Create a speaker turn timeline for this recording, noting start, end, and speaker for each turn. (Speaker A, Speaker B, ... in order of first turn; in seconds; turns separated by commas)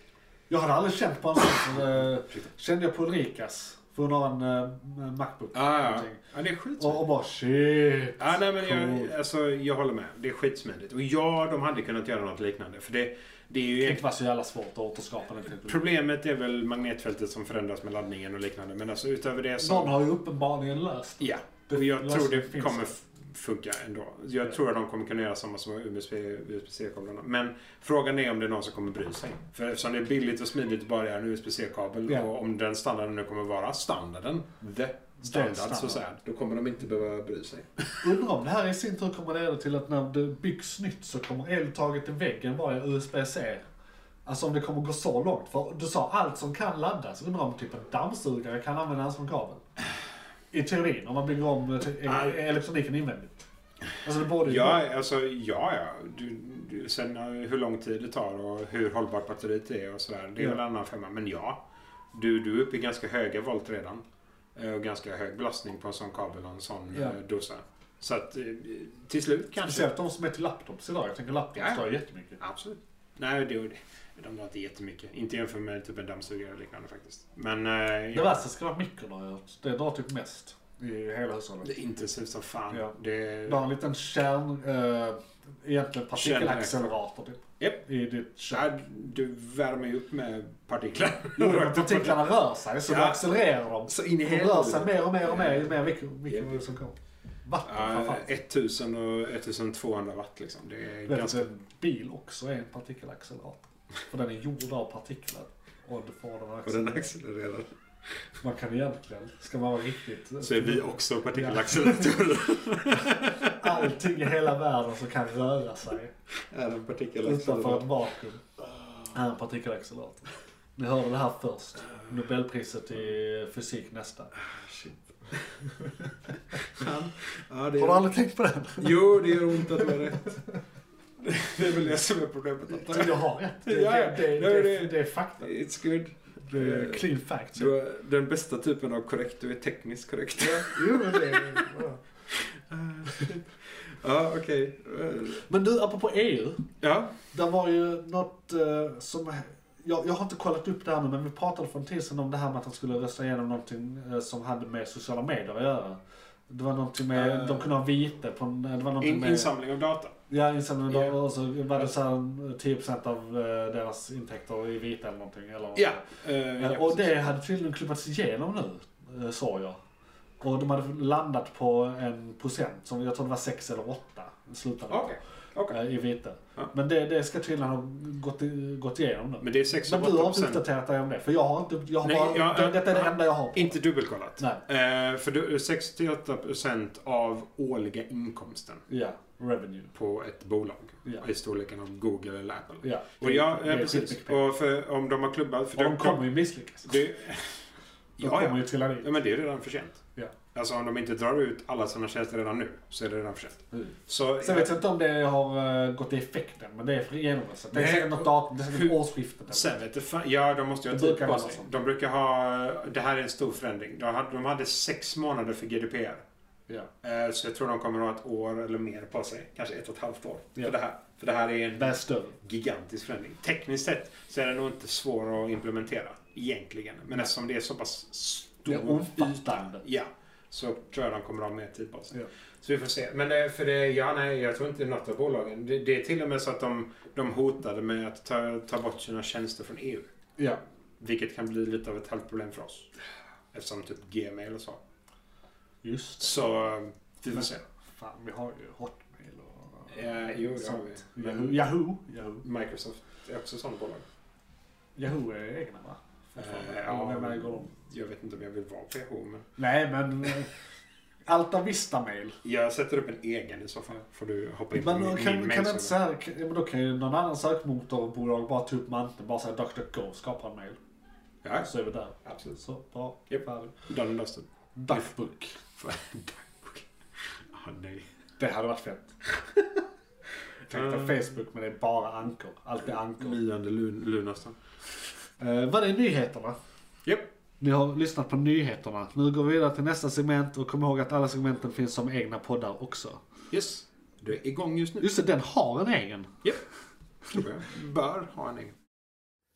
Speaker A: 0.5-6.2, Speaker B: 1.6-2.5, Speaker B: 5.5-7.0, Speaker A: 6.8-9.1, Speaker B: 8.2-14.1, Speaker A: 13.8-15.9, Speaker B: 15.6-20.0, Speaker A: 19.6-22.9, Speaker B: 21.2-38.0, Speaker A: 35.2-36.0, Speaker A: 38.0-43.6, Speaker A: 44.3-49.6, Speaker A: 50.5-53.5, Speaker B: 52.1-52.4, Speaker A: 54.0-54.8, Speaker B: 54.4-61.6, Speaker B: 62.1-64.0, Speaker B: 64.5-69.9, Speaker A: 66.9-67.2, Speaker A: 69.6-72.4, Speaker B: 71.6-78.5, Speaker A: 78.1-81.7, Speaker B: 81.6-83.6, Speaker A: 83.5-88.7, Speaker B: 86.1-86.8, Speaker B: 88.5-92.3, Speaker A: 91.4-98.3, Speaker B: 92.8-95.8, Speaker B: 96.3-96.6, Speaker B: 97.7-101.5, Speaker A: 101.1-107.1, Speaker B: 106.7-107.7, Speaker A: 108.4-112.2, Speaker B: 110.4-113.9, Speaker A: 112.9-116.1, Speaker B: 116.5-118.1, Speaker A: 117.2-118.4, Speaker A: 119.1-124.3, Speaker B: 124.4-125.9, Speaker A: 126.3-126.8, Speaker B: 126.5-128.1, Speaker A: 127.8-130.3, Speaker B: 128.8-130.4, Speaker B: 131.2-141.7, Speaker A: 132.7-135.5, Speaker A: 136.5-137.7, Speaker A: 140.4-142.0, Speaker B: 142.3-145.4, Speaker A: 145.5-146.7, Speaker B: 146.8-147.2, Speaker A: 147.3-159.5, Speaker B: 157.1-157.7, Speaker B: 159.0-160.2, Speaker A: 160.3-166.0, Speaker B: 160.9-161.2, Speaker B: 165.8-167.3, Speaker A: 166.6-169.8, Speaker A: 170.4-175.2, Speaker B: 174.9-175.8, Speaker A: 175.7-183.8, Speaker B: 179.4-180.6, Speaker B: 182.0-188.8, Speaker A: 188.9-189.9, Speaker B: 189.9-196.3, Speaker A: 192.8-194.4, Speaker A: 195.8-197.0, Speaker B: 196.8-197.6, Speaker B: 198.2-204.7, Speaker A: 198.2-199.1, Speaker A: 203.7-209.7, Speaker B: 207.7-216.2, Speaker A: 210.9-211.7, Speaker B: 217.0-240.1, Speaker A: 221.8-222.4, Speaker A: 228.7-229.8, Speaker B: 241.0-242.9, Speaker B: 243.5-244.8, Speaker A: 245.8-246.6, Speaker B: 246.2-247.6, Speaker A: 247.3-252.4, Speaker B: 249.9-251.7, Speaker B: 252.4-254.1, Speaker A: 255.0-257.7, Speaker B: 256.4-259.5, Speaker A: 259.6-260.5, Speaker A: 261.3-262.4, Speaker B: 262.4-265.9, Speaker A: 264.7-270.8, Speaker B: 271.4-271.7, Speaker A: 271.6-273.8, Speaker B: 272.2-272.6, Speaker B: 273.3-276.9, Speaker A: 274.8-275.6, Speaker B: 277.5-278.0, Speaker A: 278.4-279.2, Speaker A: 280.7-283.4, Speaker B: 280.7-281.2, Speaker B: 282.9-284.6, Speaker A: 285.4-286.6, Speaker B: 287.1-287.3, Speaker A: 287.6-293.2, Speaker B: 293.5-295.1, Speaker A: 295.0-296.4, Speaker B: 297.3-298.8